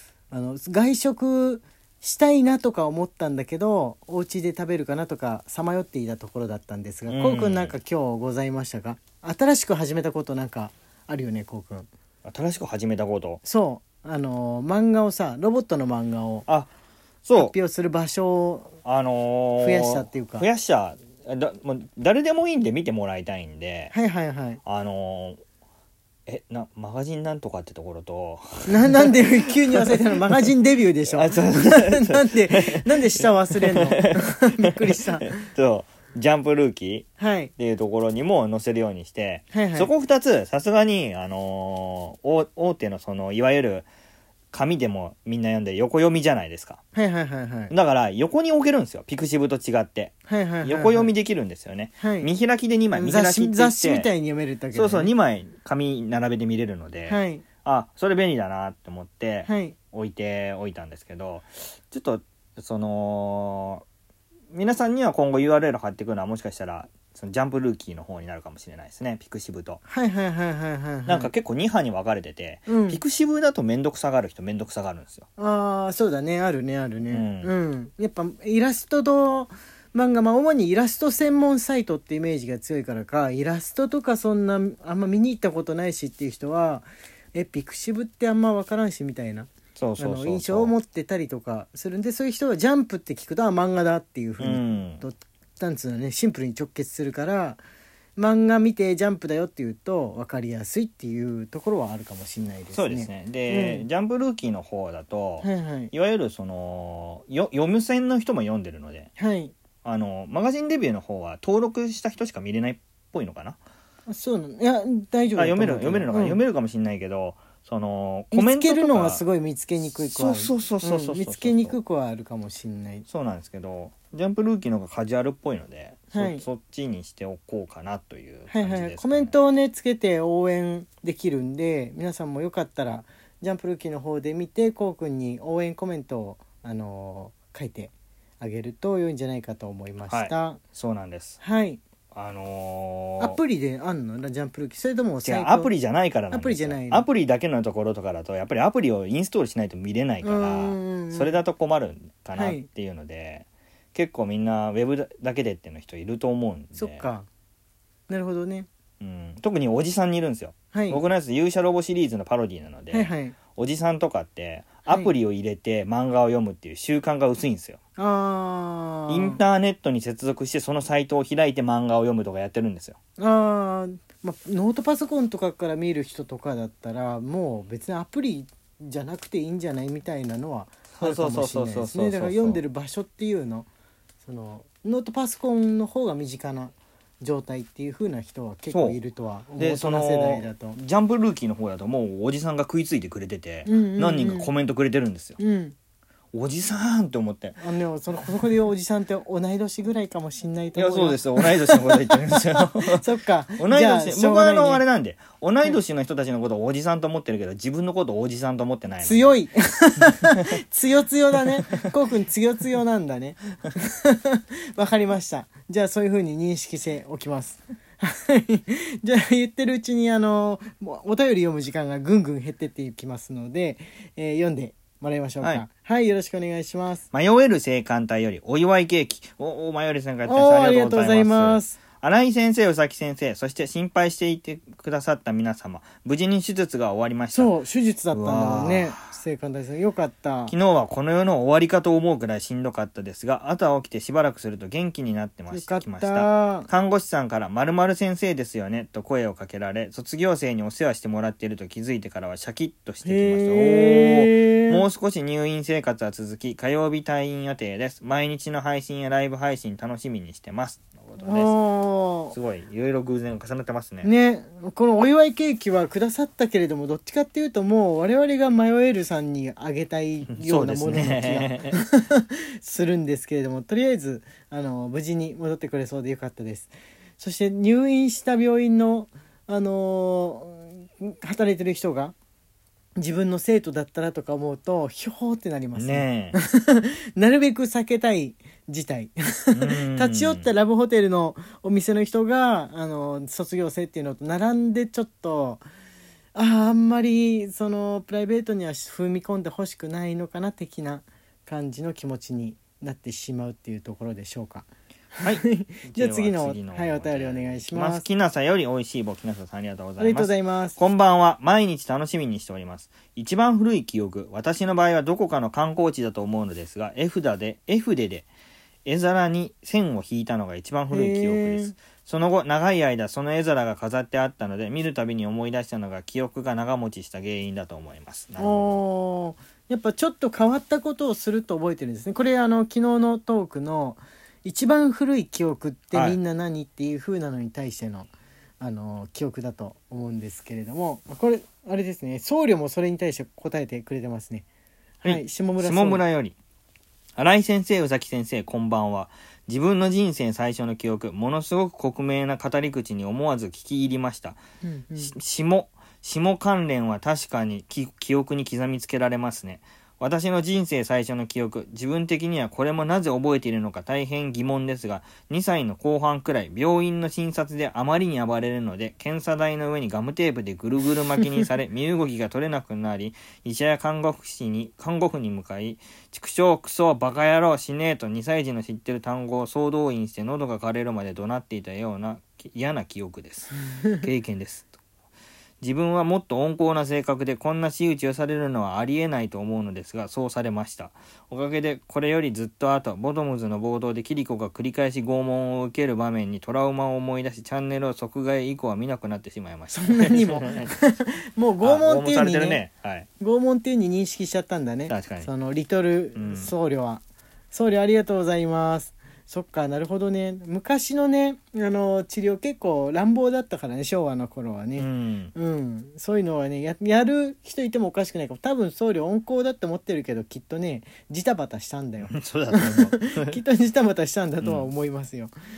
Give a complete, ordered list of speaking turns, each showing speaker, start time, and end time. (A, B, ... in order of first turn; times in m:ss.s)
0:00.3-0:11.9 A
0:07.1-0:07.7 B
0:12.2-0:13.4 B
0:13.4-0:16.4 A
0:17.2-0:17.5 B
0:17.4-0:18.8 A
0:18.8-0:23.9 B
0:19.6-0:20.5 A
0:23.9-0:24.6 A
0:24.6-0:25.4 B
0:26.3-0:30.0 B
0:28.7-0:35.4 A
0:31.1-0:43.9 B
0:37.2-0:37.5 A
0:39.5-0:39.9 A
0:44.5-0:46.8 B
0:46.9-0:47.7 A
0:47.7-0:54.1 B
0:50.3-0:51.1 A
0:52.0-0:52.3 A
0:52.9-0:55.1 A
0:54.7-1:03.8 B
0:57.1-0:57.4 A
0:59.4-0:59.8 A
1:04.5-1:09.8 B
1:09.9-1:11.3 A
1:11.0-1:15.3 B
1:12.7-1:13.0 A
1:15.4-1:37.6 A
1:17.1-1:17.5 B
1:29.8-1:30.7 B
1:34.4-1:35.0 B
1:38.2-1:43.9 A
1:42.7-1:49.1 B
1:45.4-1:45.9 A
1:49.2-1:49.5 A
1:49.8-1:53.6 B
1:54.1-1:56.4 A
1:55.4-1:59.2 B
1:58.3-2:03.0 A
1:59.8-2:01.8 B
2:03.1-2:09.3 B
2:06.1-2:06.4 A
2:08.5-2:20.6 A
2:20.1-2:21.4 B
2:21.4-2:21.8 A
2:22.1-2:23.4 B
2:23.2-2:25.7 A
2:25.2-2:37.0 B
2:26.3-2:27.0 A
2:30.2-2:31.3 A
2:32.3-2:32.6 A
2:36.8-2:37.3 A
2:38.1-2:38.7 A
2:39.0-2:47.8 B
2:40.7-2:41.0 A
2:42.9-2:43.4 A
2:48.0-2:49.4 A
2:49.1-2:53.0 B
2:53.2-3:03.7 A
3:01.0-3:02.6 B
3:04.2-3:10.8 A
3:08.7-3:09.0 B
3:09.6-3:15.4 B
3:13.6-3:14.5 A
3:15.4-3:15.7 A
3:16.3-3:17.6 B
3:17.6-3:24.8 A
3:20.7-3:23.0 B
3:23.6-3:29.3 B
3:29.0-3:47.0 A
3:47.1-3:57.5 B
3:50.2-3:51.8 A
3:57.3-4:00.5 A
3:58.1-3:59.1 B
4:00.5-4:21.5 B
4:05.5-4:06.7 A
4:13.0-4:14.8 A
4:21.2-4:22.4 A
4:22.3-4:24.1 B
4:24.0-4:42.1 A
4:30.3-4:31.8 B
4:43.0-4:55.6 A
4:45.8-4:46.4 B
4:49.5-4:50.5 B
4:56.3-5:08.1 A
5:05.2-5:18.3 B
5:10.0-5:10.8 A
5:18.8-5:28.8 B
5:20.9-5:21.7 A
5:28.4-5:44.4 A
5:35.9-5:36.2 B
5:45.0-5:46.0 A
5:45.0-5:46.4 B
5:47.2-5:54.4 B
5:54.6-5:55.1 A
5:55.0-6:24.8 B
6:25.6-6:40.7 B
6:39.7-6:42.6 A
6:41.6-6:43.1 B
6:43.2-7:05.3 A
6:44.9-6:45.3 B
6:46.1-6:46.5 B
6:54.8-6:55.3 B
7:02.1-7:03.4 B
7:04.4-7:04.7 B